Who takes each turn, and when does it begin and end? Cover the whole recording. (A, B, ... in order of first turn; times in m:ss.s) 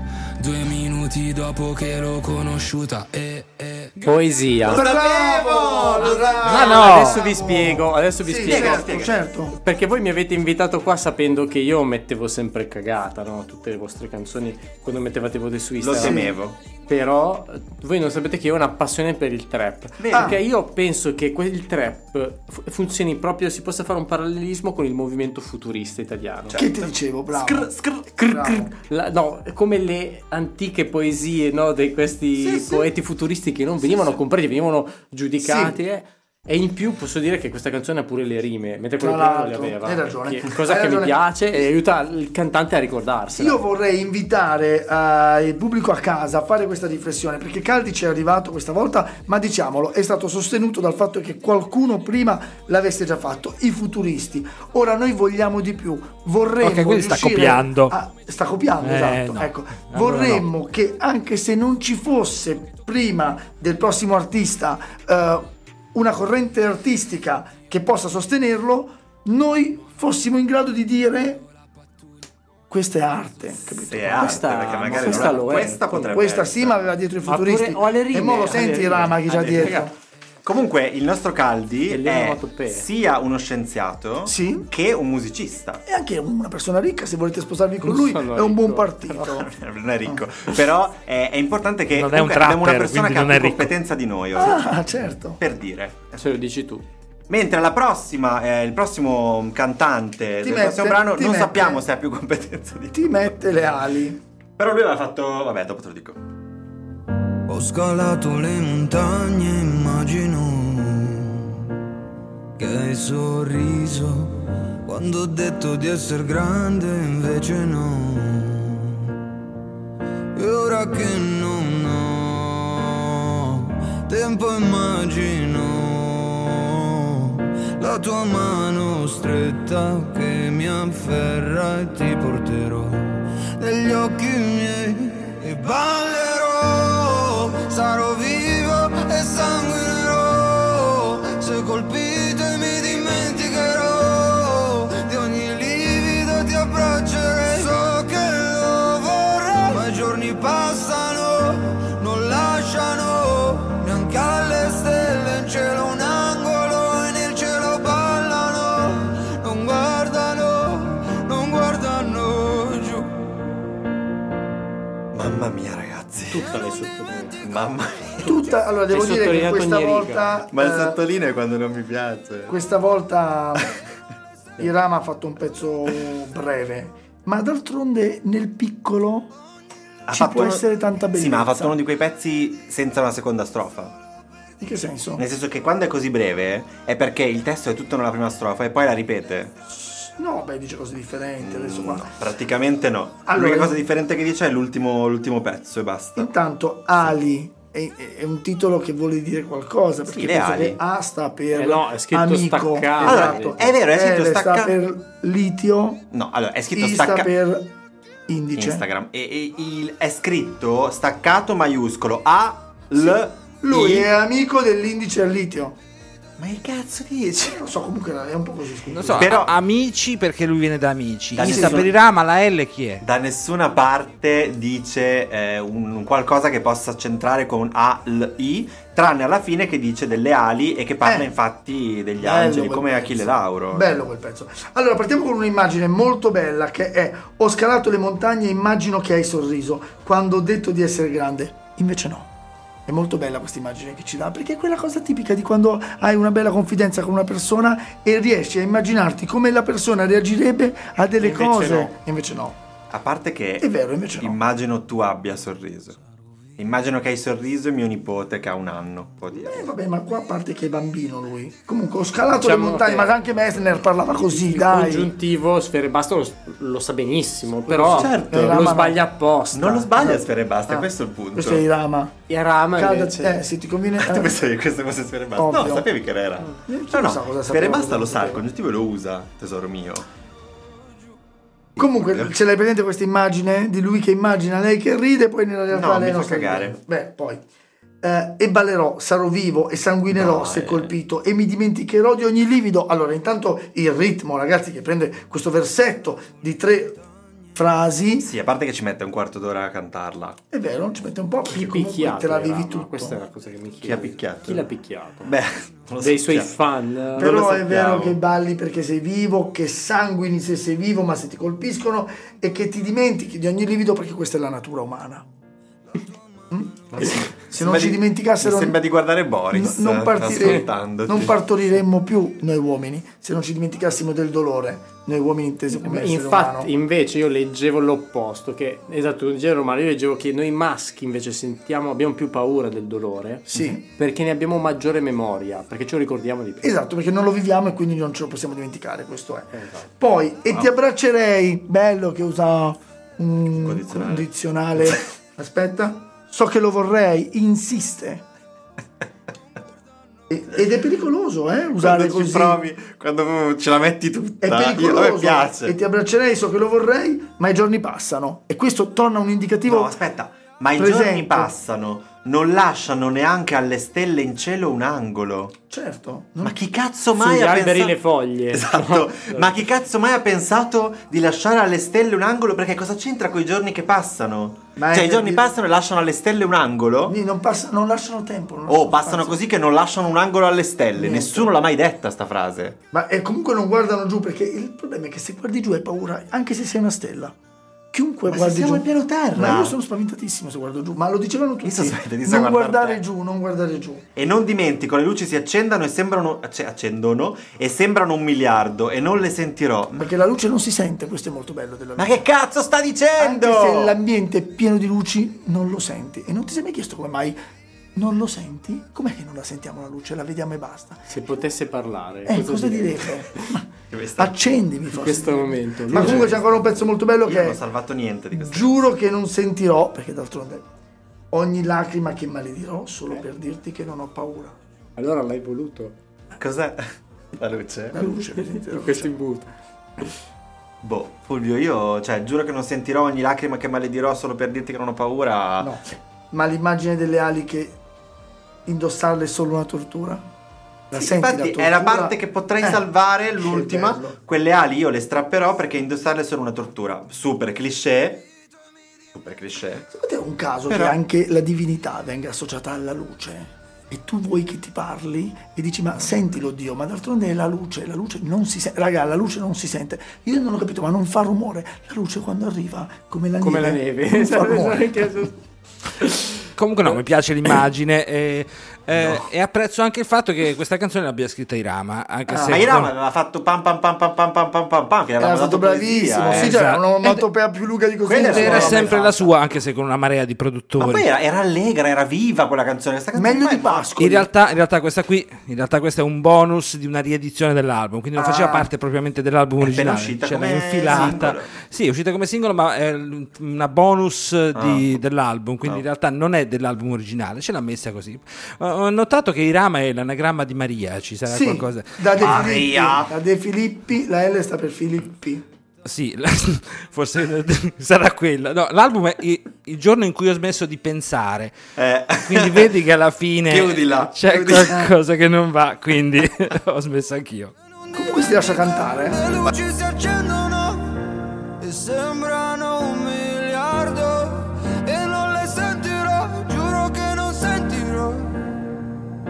0:00.4-0:04.1 A
0:04.0-0:04.8 B
0:04.6-0:06.9 C
0:04.7-0:09.6 D
0:06.5-0:16.3 B
0:06.5-0:07.2 E
0:08.4-0:09.1 C
0:15.8-0:16.6 C
0:16.0-0:16.3 D
0:16.9-0:26.6 B
0:20.0-0:20.4 C
0:26.5-0:28.1 C
0:26.5-0:27.7 D
0:28.2-0:43.6 B
0:28.2-0:28.7 D
0:32.4-0:32.7 C
0:33.9-0:34.1 C
0:35.4-0:35.7 D
0:39.0-0:41.2 D
0:43.3-1:11.4 D
0:56.6-0:57.9 E
0:58.8-1:00.4 E
1:12.7-1:15.4 D
1:13.7-1:16.9 C
1:14.2-1:16.2 B
1:16.1-1:19.9 D
1:17.3-1:19.9 B
1:19.3-1:19.8 C
1:20.4-1:25.8 C
1:21.9-1:22.8 B
1:24.2-1:24.7 D
1:25.8-1:29.5 D
1:27.8-1:29.3 B
1:29.2-1:34.8 C
1:31.9-1:33.7 E
1:34.4-1:35.4 D
1:35.4-1:36.2 C
1:36.2-1:36.8 B
1:37.3-1:43.3 C
1:40.4-1:41.8 D
1:42.9-1:44.2 D
1:44.6-1:46.2 C
1:47.5-1:51.4 F
1:52.6-1:54.3 F
1:54.8-1:58.9 F
2:00.4-2:43.1 F
2:45.1-2:46.5 C
2:46.3-2:47.5 B
2:47.4-2:48.4 C
2:48.2-2:51.0 D
2:48.9-2:50.4 B
2:50.5-2:52.6 C
2:52.5-2:53.7 D
2:54.6-2:59.3 D
3:00.1-3:04.0 C
3:00.1-3:01.8 D
3:04.6-3:05.2 D
3:05.2-3:09.5 C
3:09.7-3:12.1 D
3:11.4-3:16.3 C
3:13.2-3:13.8 D
3:16.2-3:26.0 D
3:20.1-3:20.8 C
3:21.5-3:23.6 B
3:23.0-3:24.8 C
3:26.1-3:27.3 C
3:26.7-3:27.7 D
3:28.3-3:28.8 D
3:28.6-3:34.1 C
3:33.0-3:35.8 D
3:36.4-3:37.6 C
3:37.4-3:39.3 D
3:38.9-3:43.0 E
3:39.1-3:39.6 C
3:41.3-3:41.9 C
3:41.4-3:41.8 D
3:43.0-3:54.0 C
3:51.0-3:51.3 D
3:52.2-4:02.3 D
4:02.9-4:12.6 D
4:11.2-4:11.9 B
4:12.9-4:16.0 C
4:13.6-4:14.4 D
4:16.6-4:19.7 C
4:19.3-4:25.1 D
4:22.3-4:23.3 B
4:24.1-4:29.9 B
4:27.8-4:29.0 D
4:27.9-4:28.8 C
4:29.5-4:31.6 C
4:30.0-4:32.1 D
4:32.3-4:33.4 B
4:32.8-4:34.3 D
4:34.0-4:40.0 C
4:35.4-4:35.9 D
4:36.7-4:38.4 D
4:41.8-4:47.4 D
4:41.8-4:42.3 C
4:45.7-4:46.8 C
4:48.0-4:57.0 D
4:50.1-4:50.9 C
4:57.5-4:58.3 D
4:58.2-5:00.4 C
5:00.5-5:03.2 D
5:01.5-5:05.3 B
5:03.8-5:04.7 C
5:05.2-5:06.5 C
5:06.0-5:07.4 B
5:07.1-5:08.2 C
5:07.2-5:15.2 D
5:16.5-5:18.8 D
5:16.9-5:21.4 C
5:19.5-5:26.7 D
5:25.7-5:36.8 B
5:33.5-5:33.8 D
5:36.6-5:48.2 D
5:39.5-5:39.9 B
5:43.5-5:44.3 C
5:50.3-5:52.6 D
5:51.8-5:55.7 C
5:54.4-5:59.9 D
5:59.6-6:05.5 C
6:00.8-6:01.5 D
6:05.7-6:06.6 D
6:06.4-6:08.0 C
6:07.2-6:09.6 B
6:08.5-6:17.2 C
6:14.8-6:15.4 D
6:17.1-6:19.4 D
6:18.7-6:22.8 C
6:21.0-6:21.5 D
6:22.9-6:27.3 D
6:27.9-6:34.0 D
6:28.3-6:29.8 C
6:31.6-6:33.0 C
6:34.2-6:40.1 C
6:40.0-6:42.2 D
6:42.0-6:44.0 C
6:43.2-6:47.4 D
6:47.9-6:51.0 D
6:51.1-6:53.4 B
6:52.2-6:57.6 D
6:53.9-6:54.6 C
6:55.0-6:56.4 B
6:55.9-6:56.5 C
6:57.2-6:58.8 C
6:58.3-7:00.6 D
7:01.3-7:04.5 D
7:05.0-7:06.0 B
7:06.4-7:06.8 C
7:07.4-7:08.0 C
7:07.9-7:09.1 D
7:08.0-7:10.0 B
7:10.8-7:15.7 C
7:15.6-7:17.8 D
7:18.6-7:20.2 D
7:20.9-7:22.8 D
7:20.9-7:28.2 C
7:23.4-7:24.2 D
7:29.1-7:29.9 C
7:29.9-7:45.1 D
7:30.7-7:31.0 C
7:43.4-7:45.3 B
7:46.0-7:46.4 B
7:46.6-7:52.9 E
7:49.0-7:49.2 C
7:52.3-7:52.6 D
7:52.4-7:56.6 C
7:55.2-7:59.3 D
7:56.3-7:57.2 E
7:58.1-7:59.1 C
7:58.2-8:01.0 E
8:00.8-8:03.9 C
8:03.1-8:04.3 D
8:04.0-8:22.4 E
8:08.2-8:08.7 D
8:09.6-8:11.5 C
8:14.5-8:15.0 C
8:21.3-8:25.4 D
8:22.2-8:23.1 C
8:25.8-8:31.6 E
8:31.8-8:32.7 C
8:32.2-8:37.5 E
8:33.4-8:34.8 C
8:34.6-8:34.9 D
8:37.9-8:39.2 D
8:38.0-8:41.0 F
8:41.6-8:48.4 F